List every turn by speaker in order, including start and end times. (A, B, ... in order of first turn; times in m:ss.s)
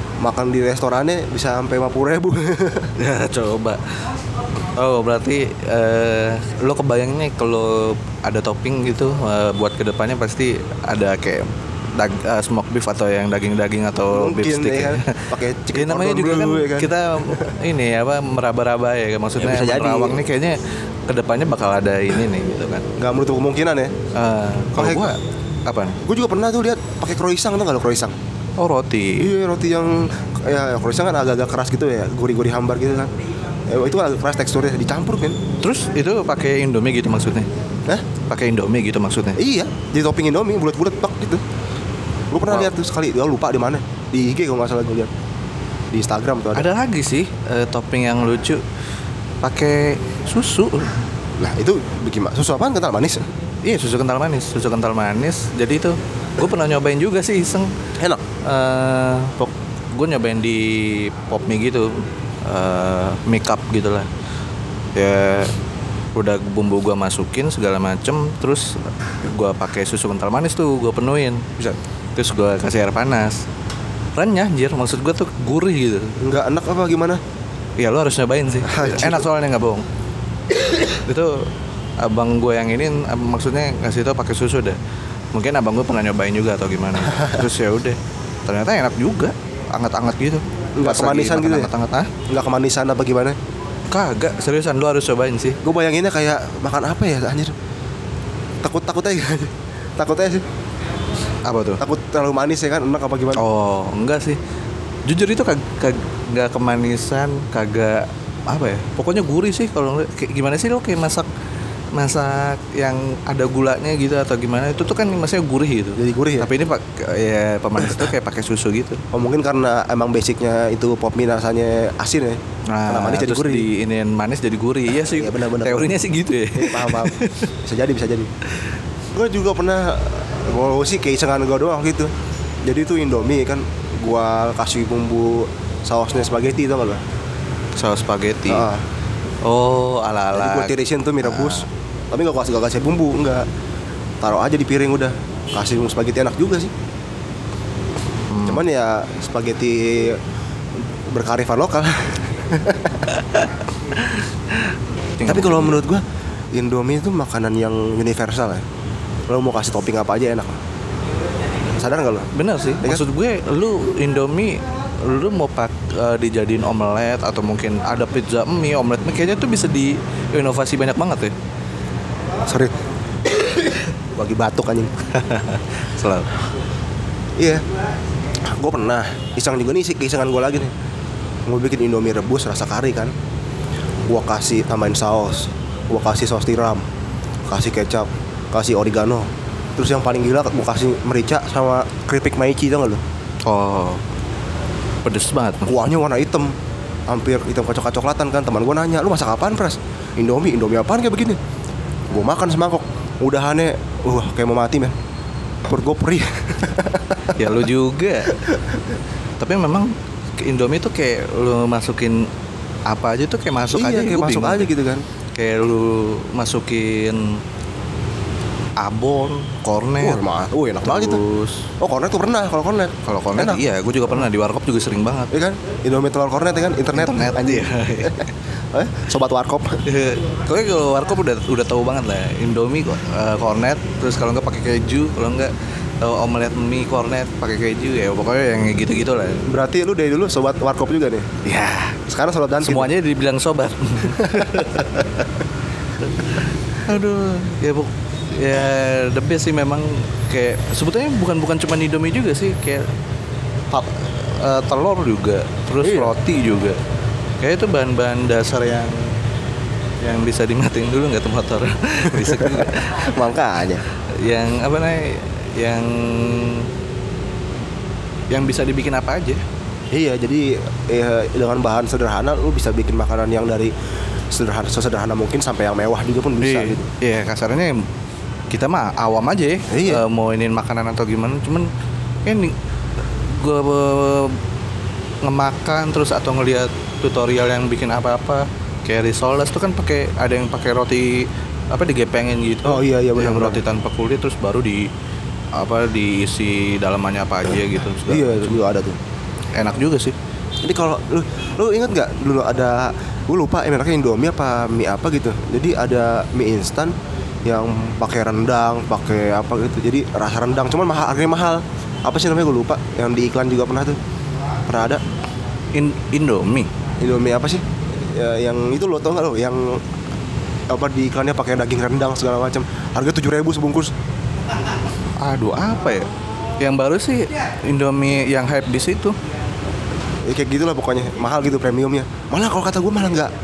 0:00.2-0:02.9 A
0:03.0-0:03.9 B
0:04.7-0:22.9 B
0:14.1-0:17.5 A
0:19.4-0:20.2 A
0:23.0-0:23.9 A
0:24.1-0:26.0 B
0:24.8-0:25.1 A
0:26.0-0:28.2 A
0:28.6-0:29.3 B
0:29.2-0:33.1 A
0:33.7-0:35.4 A
0:35.6-0:37.5 B
0:38.3-0:39.4 B
0:39.4-0:41.4 A
0:42.3-0:45.1 A
0:42.5-0:42.7 B
0:45.9-0:46.7 A
0:46.6-0:48.6 B
0:49.4-0:51.0 B
0:51.4-0:53.3 A
0:53.6-0:57.7 B
0:58.0-0:58.2 A
0:58.4-1:04.1 B
1:05.0-1:05.5 B
1:06.2-1:13.4 B
1:14.2-1:16.1 B
1:16.2-1:17.2 A
1:17.8-1:19.9 B
1:18.6-1:19.3 A
1:20.8-1:24.8 B
1:25.3-1:32.1 B
1:30.8-1:31.7 A
1:32.3-1:33.4 A
1:33.9-1:35.6 B
1:35.6-1:37.6 A
1:38.6-1:40.4 A
1:41.5-1:41.8 B
1:41.8-1:43.4 A
1:43.4-1:44.4 B
1:45.1-1:51.3 B
1:51.9-1:59.0 B
1:56.0-1:56.5 A
1:59.1-2:03.7 A
2:02.7-2:07.5 B
2:05.1-2:06.0 A
2:06.5-2:08.3 A
2:09.1-2:12.1 A
2:12.6-2:17.0 A
2:17.8-2:18.7 B
2:18.5-2:18.8 A
2:19.4-2:21.7 B
2:20.3-2:23.5 A
2:24.2-2:26.7 A
2:28.3-2:28.6 B
2:28.4-2:30.2 A
2:31.1-2:33.2 A
2:33.1-2:35.8 B
2:35.2-2:38.6 A
2:39.3-2:40.6 A
2:41.8-2:42.3 A
2:42.3-2:51.3 B
2:52.5-2:52.8 A
2:53.3-2:54.9 A
2:55.1-2:56.4 B
2:58.4-3:00.7 A
3:01.5-3:03.1 A
3:04.1-3:06.9 A
3:07.5-3:13.0 A
3:13.4-3:14.0 B
3:15.0-3:15.8 B
3:15.7-3:16.5 A
3:17.1-3:21.4 A
3:22.1-3:25.0 A
3:25.6-3:27.5 A
3:27.4-3:28.4 B
3:28.3-3:28.8 A
3:29.4-3:32.3 B
3:32.9-3:34.7 B
3:33.7-3:35.0 A
3:35.4-3:37.4 B
3:38.8-3:40.2 B
3:40.0-3:41.2 A
3:40.8-3:41.7 B
3:41.8-3:43.6 A
3:43.0-3:45.3 B
3:45.3-3:48.2 A
3:47.0-3:48.3 B
3:48.7-3:49.8 A
3:49.9-3:59.5 B
3:59.5-4:01.3 A
4:01.4-4:02.0 B
4:02.1-4:02.9 A
4:02.6-4:05.3 B
4:04.1-4:04.9 A
4:06.0-4:12.9 B
4:13.7-4:16.8 B
4:15.8-4:16.2 A
4:17.4-4:19.1 B
4:20.0-4:23.1 B
4:22.1-4:23.8 A
4:24.1-4:26.7 B
4:28.3-4:29.4 B
4:29.9-4:33.7 A
4:34.3-4:36.9 A
4:36.4-4:37.9 B
4:38.5-4:41.7 B
4:39.7-4:40.0 A
4:42.2-4:42.6 B
4:43.2-4:44.4 B
4:45.2-4:54.9 B
4:52.6-4:53.6 A
4:55.6-4:58.6 B
4:58.1-4:59.0 A
4:59.6-5:00.2 B
5:00.6-5:06.9 A
5:07.4-5:14.0 A
5:14.7-5:15.0 A
5:15.7-5:16.7 B
5:17.0-5:19.8 A
5:20.7-5:23.9 A
5:25.2-5:26.1 B
5:26.6-5:29.2 B
5:30.3-5:33.3 A